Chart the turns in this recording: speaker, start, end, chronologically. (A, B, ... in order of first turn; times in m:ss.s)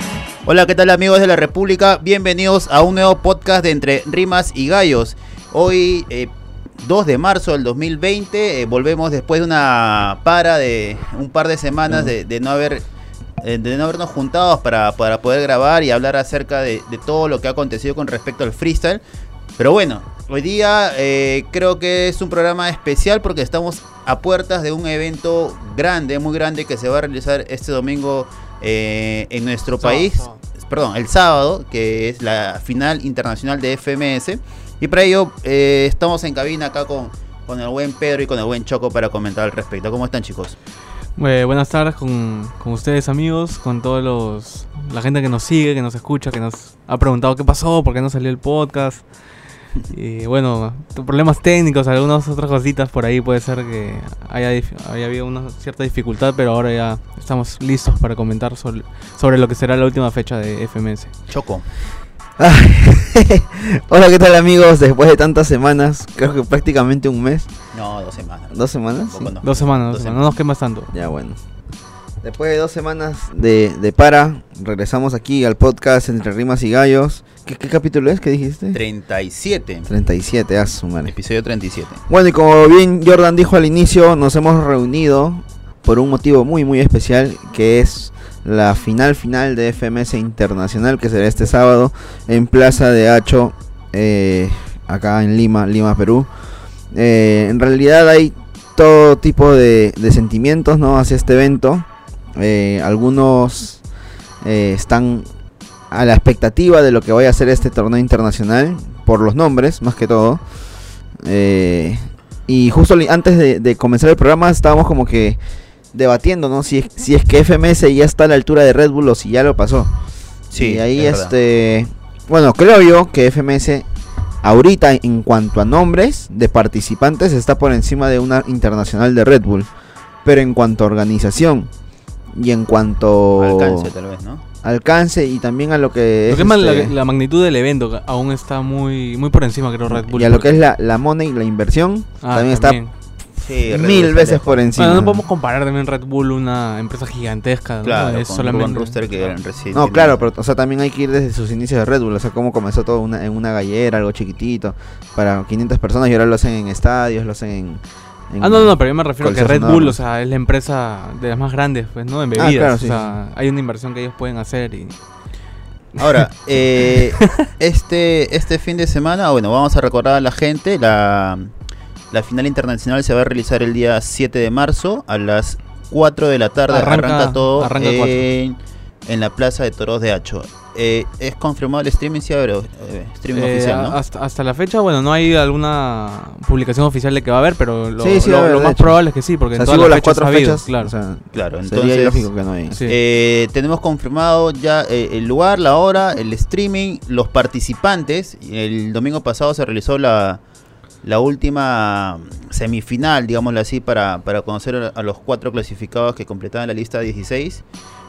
0:00.4-0:12.8 A
0:13.4-0:19.0 A
0:19.6-0:40.6 A
0:29.8-0:30.4 B
0:41.2-0:49.1 B
0:49.9-1:01.1 B
1:01.3-1:01.6 A
1:02.4-1:07.5 C
1:07.7-1:10.4 A
1:08.5-1:09.3 C
1:09.4-1:10.9 B
1:10.9-1:11.4 C
1:12.2-1:18.8 C
1:18.7-1:19.9 A
1:19.8-1:21.1 C
1:21.1-1:22.0 A
1:22.1-1:36.3 C
1:36.9-1:43.8 C
1:44.4-1:45.3 C
1:45.9-1:50.4 C
1:51.2-1:55.4 C
1:55.9-1:59.9 C
2:00.5-2:01.3 A
2:00.5-2:03.9 C
2:04.4-2:09.7 C
2:10.2-2:11.7 C
2:12.3-2:13.9 C
2:13.3-2:14.4 A
2:14.6-2:16.9 C
2:16.3-2:20.5 B
2:19.9-2:22.8 C
2:22.2-2:22.9 B
2:23.4-2:24.6 A
2:23.7-2:25.2 C
2:24.8-2:29.4 B
2:27.8-2:30.3 A
2:29.7-2:40.0 C
2:38.4-2:45.0 B
2:42.4-2:43.2 C
2:46.0-2:46.2 B
2:46.0-2:51.5 A
2:46.8-2:47.4 B
2:52.1-3:04.0 A
2:56.7-2:58.2 B
3:03.3-3:10.9 B
3:08.0-3:09.0 C
3:09.5-3:12.8 C
3:11.3-3:12.3 A
3:12.7-3:13.0 B
3:12.8-3:20.4 A
3:21.0-3:27.6 A